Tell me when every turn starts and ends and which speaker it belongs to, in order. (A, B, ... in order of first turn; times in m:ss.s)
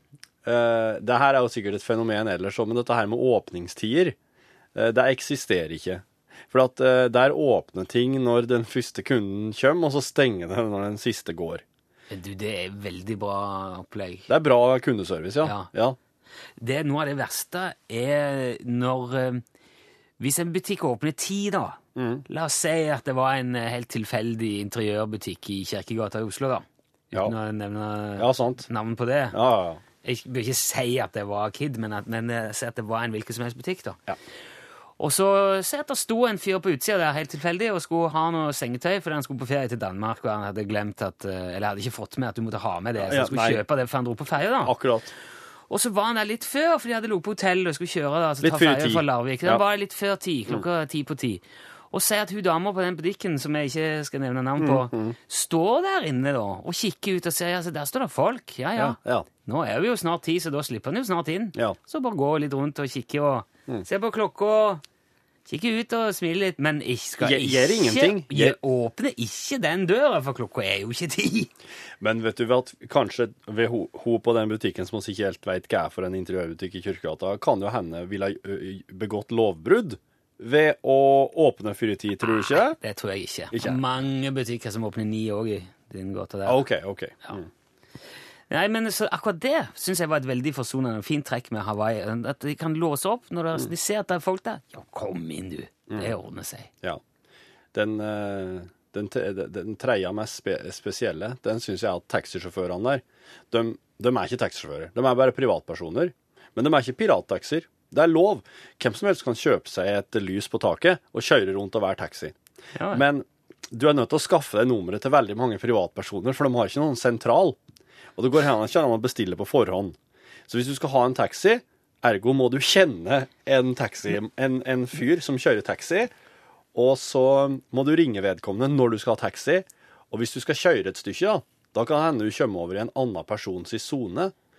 0:00.4-0:04.2 A
0:04.7-0:11.6 A
0:12.1-0:14.3 B
0:14.3-0:16.0 A
0:15.4-0:15.7 B
0:16.6-0:19.4 B
0:20.2-0:29.4 B
0:22.0-0:22.2 A
0:28.2-0:28.7 A
0:29.3-0:29.8 A
0:30.0-0:34.0 B
0:35.0-0:44.7 B
0:43.0-0:43.6 A
0:44.6-0:45.1 A
0:45.7-1:04.8 B
0:48.4-0:49.6 A
0:54.6-0:55.2 A
0:58.8-0:59.3 A
1:05.5-1:11.5 B
1:07.2-1:08.6 A
1:12.0-1:22.8 A
1:22.2-1:26.6 B
1:23.5-1:23.8 A
1:26.4-1:27.5 A
1:28.5-1:36.7 B
1:37.7-1:52.4 A
1:52.8-1:53.0 B
1:52.9-1:57.6 A
1:58.2-2:00.0 A
2:00.5-2:06.1 A
2:06.7-2:14.3 A